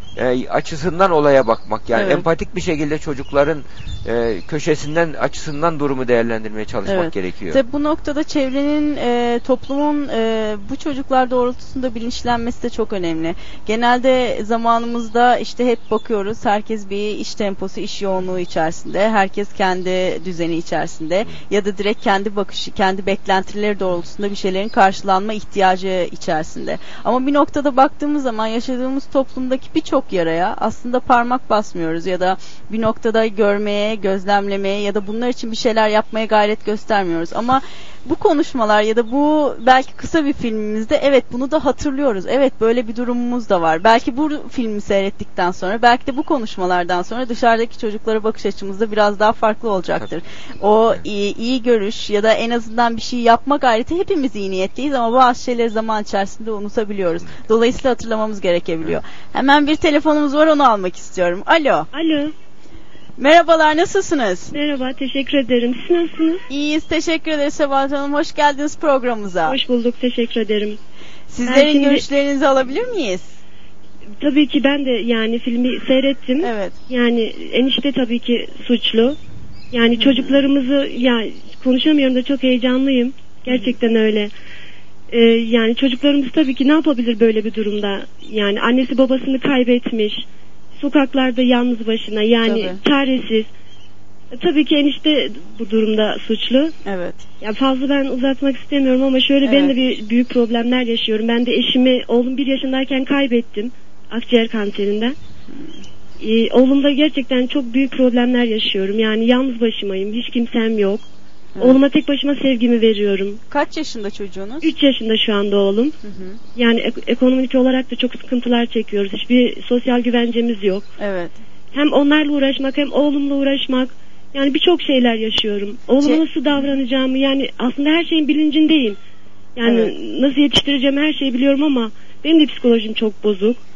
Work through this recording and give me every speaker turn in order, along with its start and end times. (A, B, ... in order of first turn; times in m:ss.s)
0:00.2-0:07.6 A
0:02.0-0:02.2 B
0:06.9-1:01.9 B
1:01.9-1:02.3 C
1:03.2-1:04.5 B
1:04.5-1:06.4 C
1:06.5-1:09.6 B
1:09.5-1:10.8 C
1:11.3-1:13.4 B
1:11.4-1:12.1 C
1:14.2-1:19.2 C
1:16.4-1:16.8 B
1:19.7-1:24.3 C
1:20.0-1:20.4 B
1:23.5-1:23.8 B
1:25.1-1:30.3 C
1:30.8-1:33.5 C
1:32.4-1:32.8 B
1:34.3-1:36.7 C
1:36.8-1:37.2 B
1:37.4-1:45.2 C
1:39.4-1:39.7 B
1:46.2-1:51.0 C
1:51.6-1:51.8 B
1:51.6-1:53.4 C
1:53.5-1:54.7 B
1:54.6-1:56.0 C
1:56.0-1:56.4 B
1:56.6-2:00.9 C
2:01.0-2:01.4 B
2:01.7-2:09.0 C
2:09.6-2:13.6 C
2:09.6-2:09.9 B